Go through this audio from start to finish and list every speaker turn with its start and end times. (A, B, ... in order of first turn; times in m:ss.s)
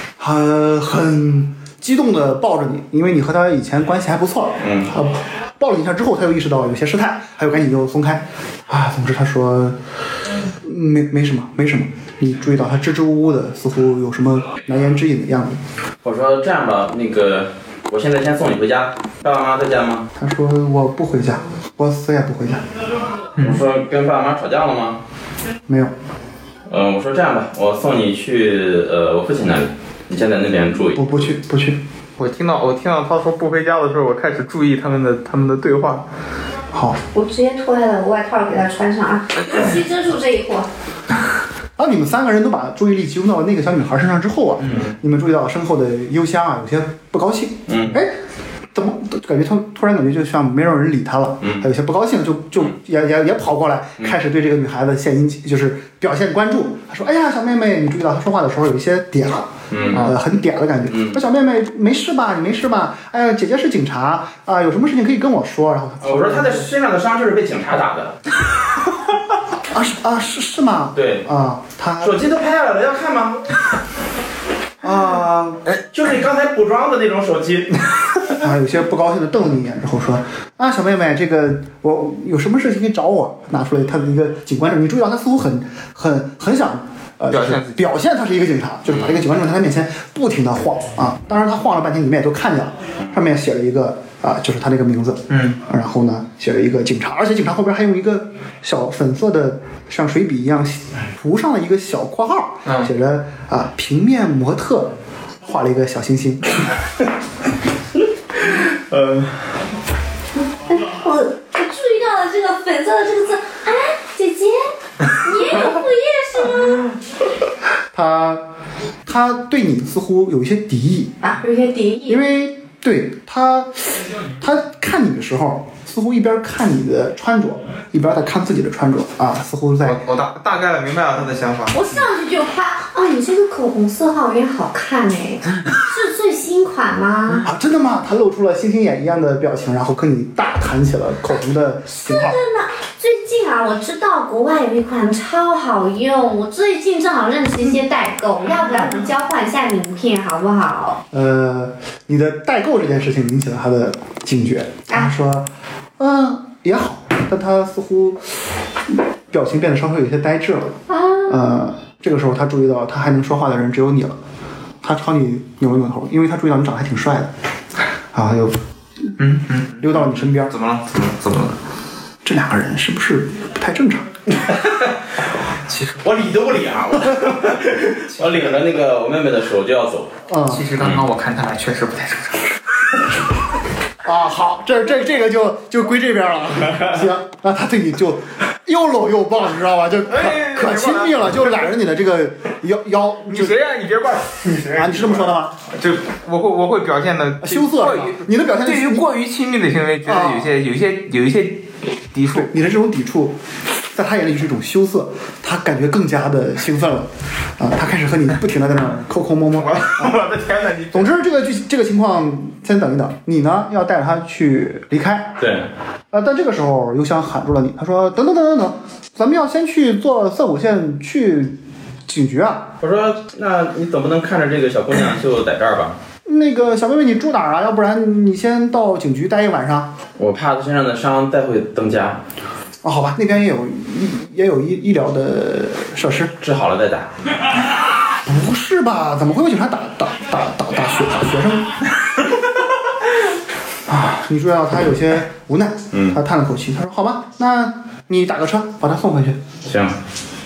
0:00.2-0:09.8 A
0:04.6-0:04.9 B
0:10.6-0:15.6 A
0:16.0-0:20.1 B
0:20.2-0:22.6 A
0:23.4-0:25.0 B
0:25.7-0:25.9 A
0:26.7-0:31.3 B
0:31.0-0:31.8 A
0:32.2-0:36.0 C
0:36.7-0:37.0 A
0:37.1-0:40.7 D
0:41.8-0:48.2 A
0:47.7-0:48.0 B
0:48.7-1:06.7 A
0:59.7-1:00.1 B
1:00.9-1:01.2 B
1:06.0-1:08.2 B
1:09.7-1:12.2 A
1:11.0-1:11.3 B
1:12.0-1:13.5 B
1:14.8-1:15.6 A
1:15.7-1:17.9 B
1:18.4-1:46.5 A
1:27.3-1:27.8 C
1:35.3-1:35.6 C
1:42.7-1:42.9 C
1:48.9-1:49.3 B
1:50.6-1:56.9 D
1:57.9-1:58.5 A
1:59.1-2:01.2 A
2:01.2-2:02.2 D
2:02.1-2:10.0 A
2:09.8-2:11.9 C
2:11.7-2:17.5 D
2:17.4-2:22.4 A
2:21.9-2:31.0 D
2:31.1-2:44.2 A
2:40.9-2:41.6 D
2:44.8-2:47.3 A
2:48.1-2:49.1 A
2:49.2-2:51.6 C
2:49.8-2:50.6 A
2:52.2-2:54.1 A
2:54.4-2:54.9 B
2:56.0-3:00.1 B
3:00.3-3:00.7 A
3:00.4-3:02.6 C
3:04.0-3:13.6 A
3:10.1-3:11.7 C
3:13.3-3:22.6 C
3:14.7-3:15.6 A
3:17.4-3:19.1 A
3:20.0-3:20.5 A
3:22.3-3:30.2 A
3:29.6-3:31.1 C
3:30.9-3:35.4 A
3:35.4-3:35.7 B
3:36.1-3:42.7 A
3:42.8-3:46.0 B
3:46.3-3:49.9 A
3:50.2-3:52.2 B
3:52.8-3:56.3 A
3:56.4-3:57.3 B
3:58.2-4:01.8 A
4:03.9-4:09.4 A
4:05.9-4:06.2 B
4:09.6-4:10.0 B